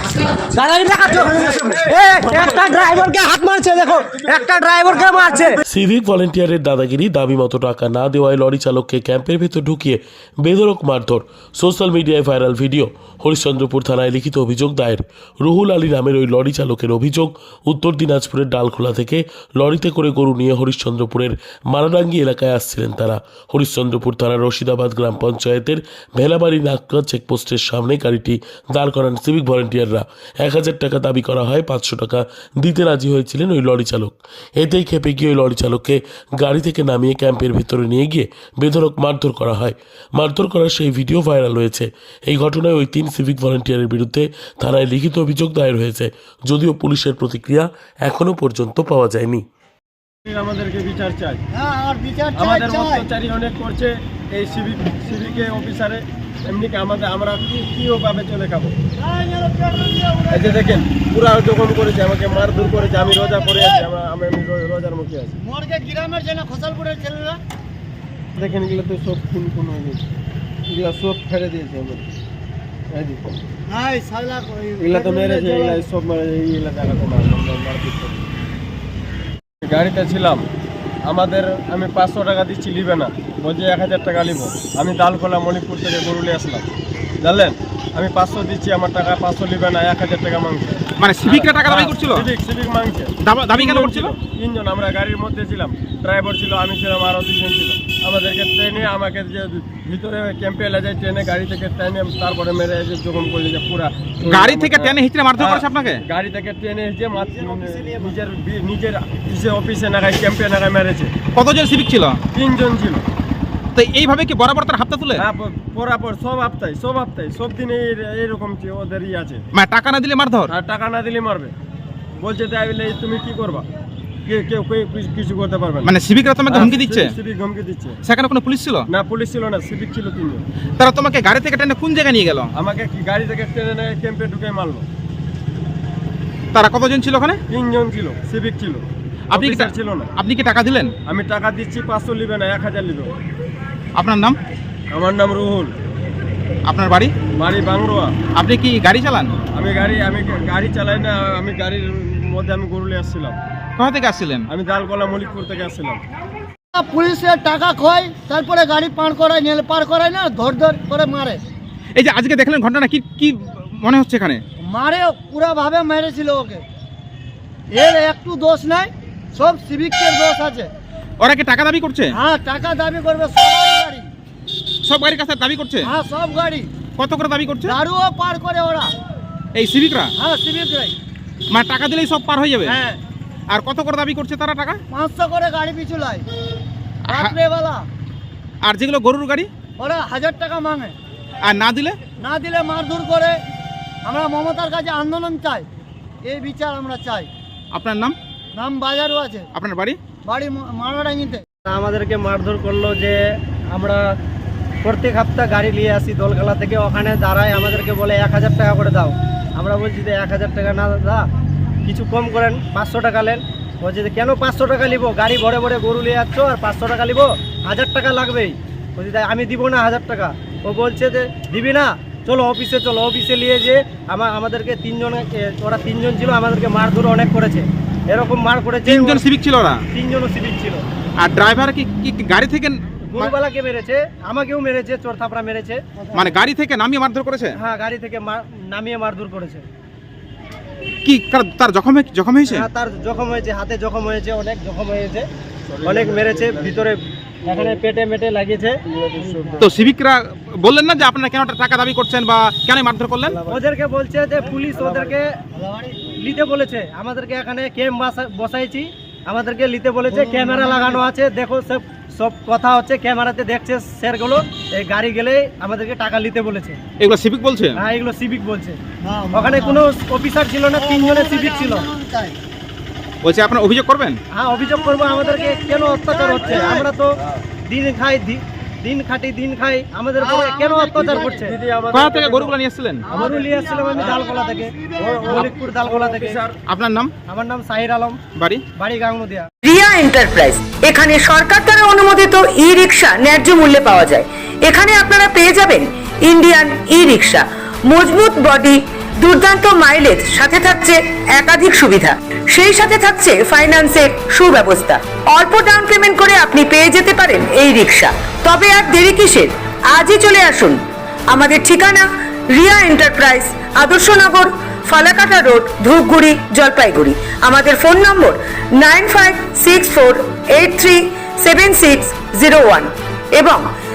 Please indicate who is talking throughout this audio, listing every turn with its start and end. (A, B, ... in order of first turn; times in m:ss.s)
0:00.4-0:05.6 A
0:05.7-0:49.5 B
0:50.3-0:51.4 C
0:51.5-0:53.1 D
0:52.4-0:58.7 C
0:59.0-1:00.6 D
1:00.3-1:05.4 C
1:02.7-1:03.9 D
1:05.4-1:07.4 D
1:08.4-1:10.0 C
1:10.7-1:12.1 C
1:12.9-1:13.2 C
1:13.7-1:15.8 D
1:14.8-1:18.2 C
1:19.6-1:20.4 C
1:21.1-1:26.6 C
1:27.2-1:51.1 C
1:31.0-1:32.3 E
1:33.2-1:34.2 E
1:44.2-1:46.0 E
1:51.4-1:52.2 E
1:52.3-1:53.0 C
1:53.8-1:55.2 E
1:55.2-1:59.4 C
1:59.6-2:00.5 E
2:00.5-2:01.5 C
2:02.2-2:03.7 C
2:04.3-2:05.9 C
2:05.8-2:07.2 E
2:06.5-2:08.0 C
2:08.1-2:08.8 E
2:08.9-2:10.4 C
2:10.8-2:12.5 E
2:12.6-2:14.9 C
2:16.5-2:17.4 E
2:17.5-2:20.1 C
2:19.3-2:20.9 E
2:21.1-2:23.1 C
2:24.0-2:24.4 E
2:24.9-2:25.7 C
2:26.7-2:27.1 E
2:27.4-2:28.1 C
2:28.4-2:29.3 E
2:29.5-2:33.4 C
2:33.8-2:34.5 E
2:34.5-2:36.0 C
2:36.7-2:41.4 D
2:42.0-2:44.4 E
2:44.6-2:46.6 D
2:47.7-2:50.7 D
2:51.2-2:52.1 E
2:52.1-2:54.1 D
2:54.8-2:55.9 E
2:55.8-2:56.7 D
2:57.0-2:57.8 E
2:57.6-2:58.9 D
2:59.6-3:00.1 E
3:00.2-3:01.0 D
3:01.5-3:02.8 E
3:02.6-3:03.0 D
3:03.5-3:04.8 E
3:04.9-3:06.2 D
3:07.1-3:07.9 D
3:07.1-3:07.4 E
3:08.6-3:09.5 E
3:09.8-3:11.0 D
3:11.4-3:12.0 E
3:12.2-3:13.4 D
3:14.0-3:15.7 D
3:16.2-3:17.3 D
3:17.7-3:18.2 E
3:18.6-3:19.5 D
3:19.5-3:20.0 E
3:20.2-3:21.4 D
3:21.7-3:23.2 A
3:23.7-3:24.0 A
3:24.8-3:31.3 A
3:31.8-3:49.2 A
3:48.8-3:49.8 E
3:49.9-3:50.8 A
3:51.2-3:53.3 E
3:53.1-3:55.8 A
3:56.0-3:56.3 D
3:56.1-3:57.6 E
3:57.6-3:59.7 A
4:01.0-4:02.7 E
4:02.4-4:05.3 A
4:05.7-4:07.0 C
4:05.8-4:08.8 A
4:07.5-4:07.8 C
4:08.9-4:09.7 C
4:09.2-4:09.7 D
4:09.6-4:13.4 E
4:13.5-4:15.3 A
4:14.7-4:15.1 C
4:15.6-4:16.0 D
4:16.2-4:26.8 A
4:20.1-4:21.1 D
4:27.0-4:27.8 E
4:27.8-4:28.8 A
4:29.0-4:29.9 D
4:29.3-4:31.9 A
4:30.7-4:32.4 D
4:33.2-4:34.2 E
4:34.3-4:37.1 A
4:34.8-4:36.9 D
4:36.4-4:37.4 C
4:37.6-4:41.6 A
4:40.2-4:41.5 D
4:41.1-4:42.6 C
4:41.9-4:43.1 E
4:43.1-4:44.8 A
4:43.1-4:45.5 D
4:43.1-4:44.2 C
4:45.0-4:46.6 C
4:45.3-4:46.4 A
4:46.7-4:47.1 E
4:47.3-4:48.2 A
4:48.4-4:48.6 E
4:48.8-4:49.5 A
4:49.6-5:10.8 F
5:11.3-5:23.6 F